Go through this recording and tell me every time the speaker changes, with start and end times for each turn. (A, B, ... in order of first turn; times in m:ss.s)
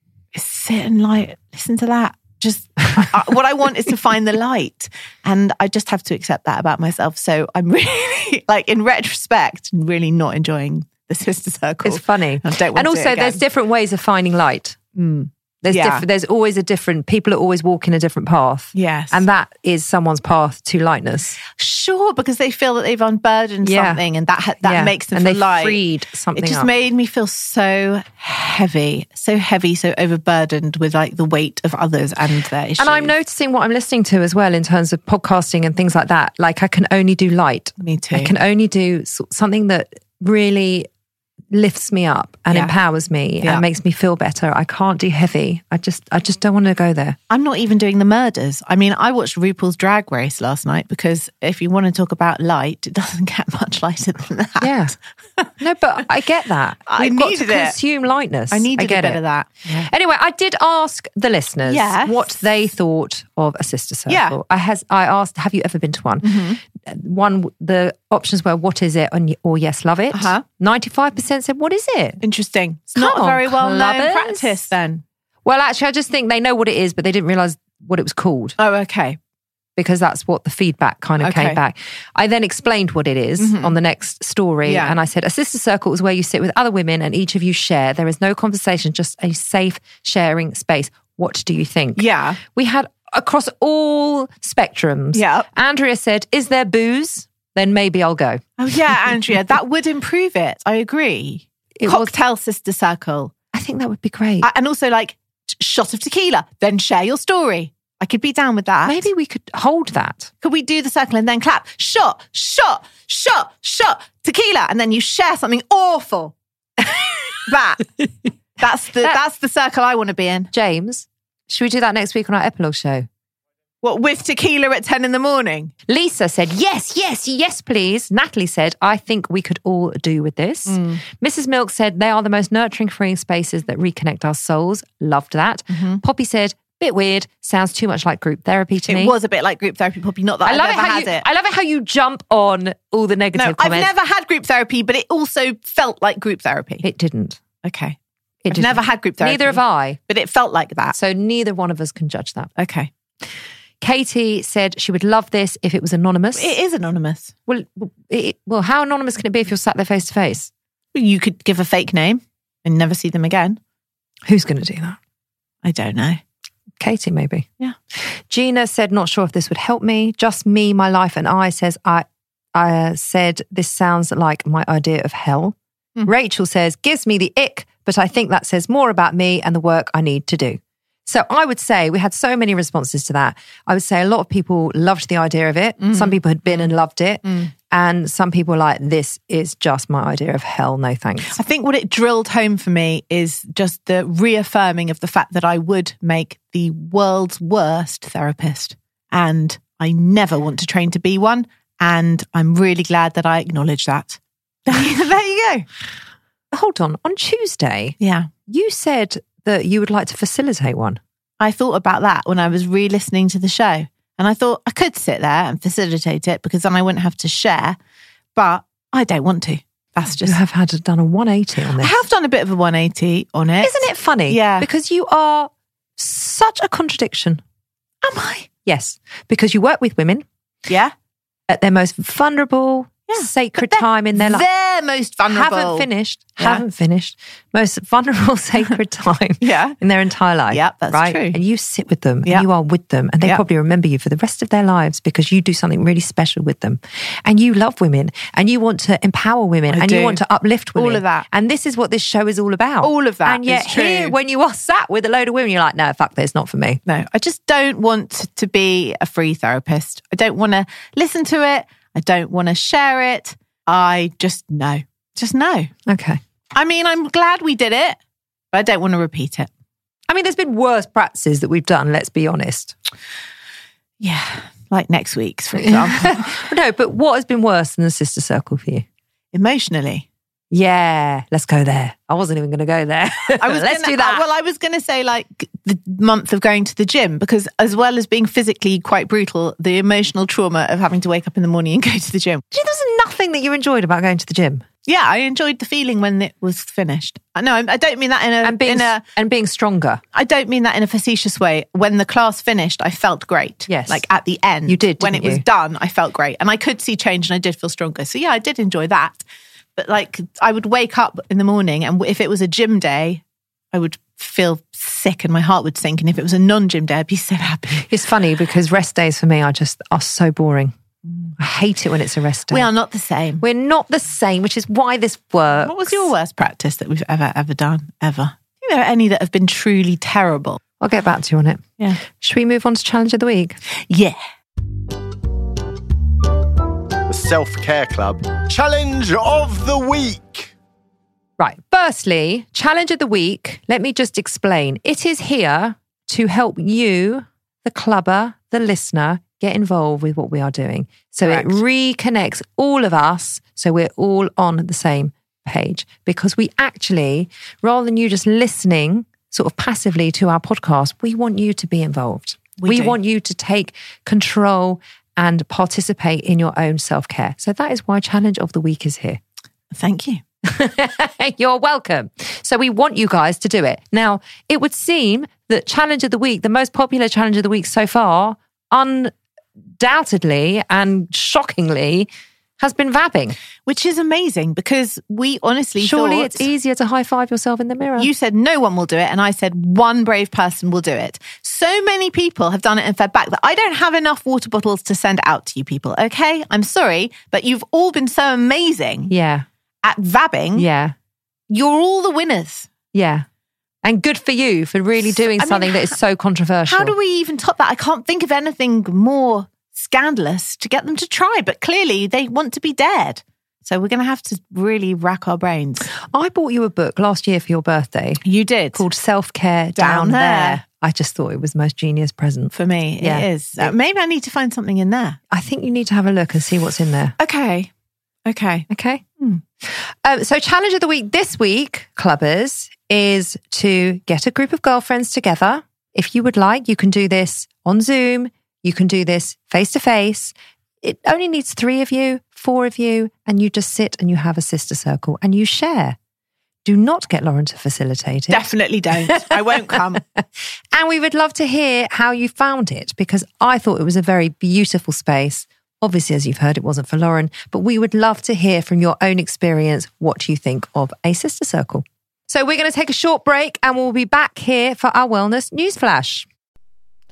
0:00.3-0:13.4 A
0:11.8-0:14.8 B
0:15.0-0:16.0 A
0:15.6-0:21.4 B
0:18.7-0:19.2 A
0:21.6-0:25.8 A
0:23.6-0:24.0 B
0:24.6-0:26.7 B
0:26.4-0:33.2 A
0:32.8-0:40.9 B
0:37.8-0:38.3 A
0:41.5-0:47.2 B
0:47.3-0:55.5 A
0:54.6-0:55.0 B
0:55.6-1:12.2 B
0:56.9-0:57.8 A
0:58.5-0:59.9 A
1:01.7-1:02.3 A
1:04.1-1:04.4 A
1:06.2-1:06.6 A
1:10.1-1:10.4 A
1:12.2-1:15.0 A
1:13.0-1:14.6 B
1:15.4-1:18.6 B
1:18.6-1:19.2 A
1:19.8-1:38.9 B
1:21.2-1:21.6 A
1:23.4-1:23.8 A
1:24.6-1:25.0 A
1:32.0-1:32.4 A
1:35.1-1:35.5 A
1:38.6-1:43.3 A
1:41.8-1:42.1 B
1:43.5-1:44.5 B
1:44.4-1:49.1 A
1:48.8-1:50.3 B
1:50.4-1:56.4 A
1:57.4-1:57.9 A
1:58.6-2:00.5 A
2:00.5-2:03.1 B
2:03.8-2:05.7 A
2:05.9-2:19.2 B
2:10.7-2:11.0 A
2:15.7-2:16.0 A
2:18.9-2:21.3 A
2:20.4-2:23.9 B
2:23.4-2:26.9 A
2:26.8-2:27.4 B
2:27.6-2:28.0 A
2:28.4-2:30.0 B
2:28.5-2:31.0 A
2:30.9-2:32.5 B
2:32.6-2:32.9 A
2:33.8-2:36.6 B
2:36.3-2:37.3 A
2:37.5-2:40.5 B
2:40.9-2:43.6 A
2:44.3-2:45.0 B
2:45.6-2:46.2 A
2:46.8-2:47.5 B
2:48.0-3:11.4 B
3:05.8-3:06.7 A
3:07.2-3:07.5 A
3:11.3-3:25.7 A
3:26.5-3:31.0 B
3:28.0-3:28.3 A
3:31.4-3:37.8 A
3:38.4-3:40.4 A
3:40.2-3:42.0 B
3:41.8-3:44.7 A
3:43.6-3:47.4 B
3:48.0-3:48.5 A
3:48.6-3:50.2 B
3:50.7-3:50.9 A
3:51.5-3:54.5 B
3:53.1-3:56.6 A
3:55.3-4:16.8 B
3:59.4-3:59.8 A
4:00.5-4:01.4 A
4:09.7-4:10.2 A
4:10.8-4:11.3 A
4:12.8-4:14.2 A
4:16.9-4:25.7 A
4:25.9-4:26.2 B
4:26.6-4:28.0 A
4:28.5-4:29.5 A
4:30.1-4:32.8 B
4:34.0-4:36.4 A
4:35.6-4:38.8 B
4:39.3-4:40.1 A
4:40.5-4:44.2 B
4:43.4-4:52.4 A
4:52.5-4:54.6 B
4:54.9-4:59.0 A
4:58.4-5:00.0 B
5:00.1-5:09.2 A
5:03.7-5:04.0 B
5:04.7-5:05.4 B
5:09.8-5:17.9 A
5:17.8-5:20.7 B
5:21.4-5:22.7 B
5:22.5-5:23.4 A
5:23.4-5:26.1 B
5:25.6-5:30.6 A
5:30.8-5:33.6 B
5:33.9-5:34.2 A
5:37.1-5:40.5 C
5:41.4-6:09.2 B
5:51.2-5:51.6 A
6:02.6-6:03.0 A
6:09.7-6:10.2 A
6:10.4-6:19.1 B
6:19.8-6:23.4 B
6:23.7-6:26.5 A
6:25.8-6:28.1 B
6:28.0-6:39.1 A
6:39.1-6:39.5 B
6:39.8-6:40.7 A
6:40.6-6:40.9 B
6:41.5-6:42.7 A
6:42.9-6:43.3 B
6:43.8-6:47.0 B
6:45.0-6:46.0 A
6:46.7-6:55.9 A
6:56.0-7:03.7 B
6:58.2-6:58.8 A
6:59.8-7:00.6 A
7:02.5-7:05.2 A
7:05.3-7:07.2 B
7:07.2-7:07.7 A
7:08.3-7:08.7 A
7:08.7-7:09.0 B
7:09.6-7:26.0 B
7:26.6-7:28.4 B
7:28.3-7:30.0 A
7:29.1-7:30.2 B
7:30.7-7:46.3 B